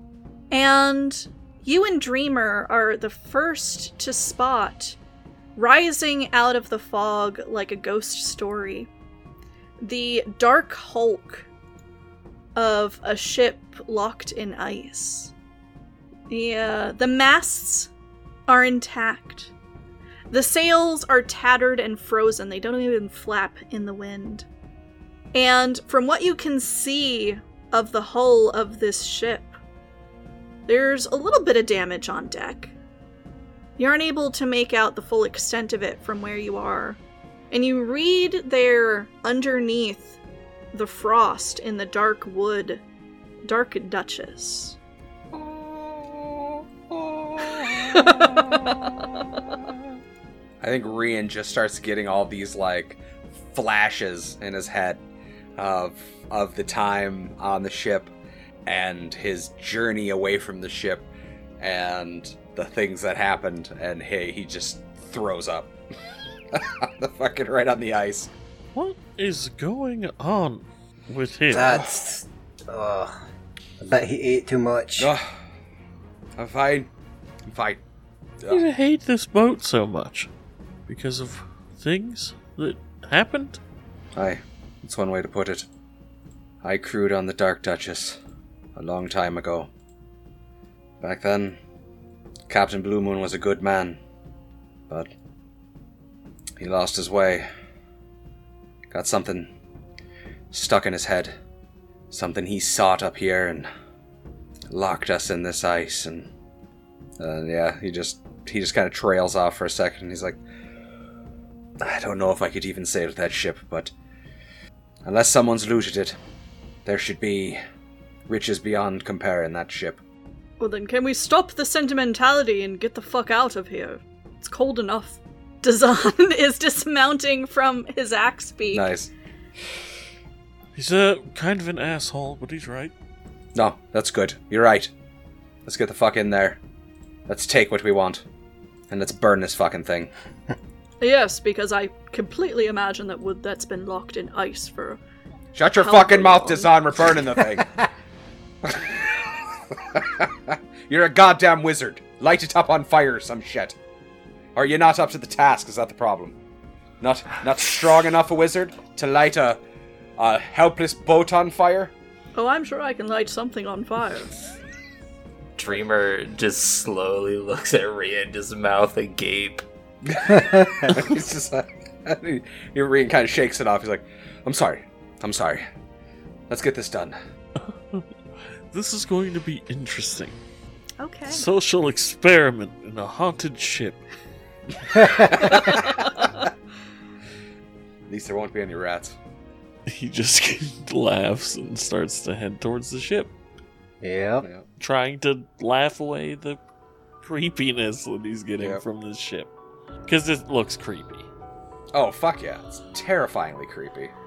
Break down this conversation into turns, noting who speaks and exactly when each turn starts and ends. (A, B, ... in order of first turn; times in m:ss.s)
0:00.5-0:05.0 A
0:05.6-0:08.9 A
0:09.8-0:11.4 A
0:12.6-0:15.3 A
0:16.3-0:17.9 A
0:18.5-0:19.5 A
0:20.3-0:24.4 A
0:25.3-0:29.5 A
0:30.7-0:32.7 A
0:33.8-0:37.0 A
0:37.5-0:40.2 A
0:40.7-0:42.8 A
0:43.4-0:44.8 A
0:45.3-0:49.6 B
0:47.8-0:48.2 A
0:50.6-0:55.0 B
0:55.6-0:58.1 B
0:58.6-1:01.1 B
1:01.6-1:05.7 B
1:06.5-1:08.3 B
1:08.7-1:11.8 C
1:11.5-1:13.1 D
1:13.8-1:15.1 D
1:15.0-1:15.2 B
1:16.4-1:16.9 B
1:17.5-1:17.8 B
1:18.5-1:20.3 C
1:20.9-1:23.6 C
1:24.2-1:25.6 B
1:26.6-1:28.2 B
1:28.8-1:29.7 B
1:31.0-1:31.6 B
1:32.5-1:34.0 B
1:36.6-1:37.5 B
1:38.9-1:39.5 B
1:40.5-1:41.3 B
1:42.1-1:43.7 B
1:44.7-1:46.3 B
1:47.2-1:50.4 B
1:51.8-1:53.9 B
1:55.0-1:56.2 B
1:56.8-1:57.6 B
1:58.3-2:00.0 B
2:00.6-2:08.9 A
2:08.7-2:09.1 B
2:10.7-2:12.9 C
2:13.5-2:14.9 B
2:15.6-2:16.6 B
2:17.3-2:18.2 B
2:18.9-2:20.1 B
2:21.0-2:25.0 A
2:25.5-2:27.8 B
2:25.8-2:27.1 A
2:28.6-2:29.2 B
2:29.7-2:33.7 B
2:34.5-2:36.4 B
2:37.0-2:39.6 B
2:40.2-2:41.9 B
2:42.4-2:44.3 A
2:45.6-2:49.6 E
2:50.0-2:55.6 B
2:56.5-2:57.2 B
2:57.6-2:58.0 C
2:58.7-3:00.4 C
3:01.0-3:01.4 A
3:01.3-3:04.0 C
3:05.1-3:06.3 B
3:08.1-3:09.1 B
3:09.9-3:13.3 C
3:14.0-3:14.5 D
3:14.8-3:16.6 C
3:17.2-3:19.5 C
3:20.0-3:21.3 C
3:21.9-3:24.1 B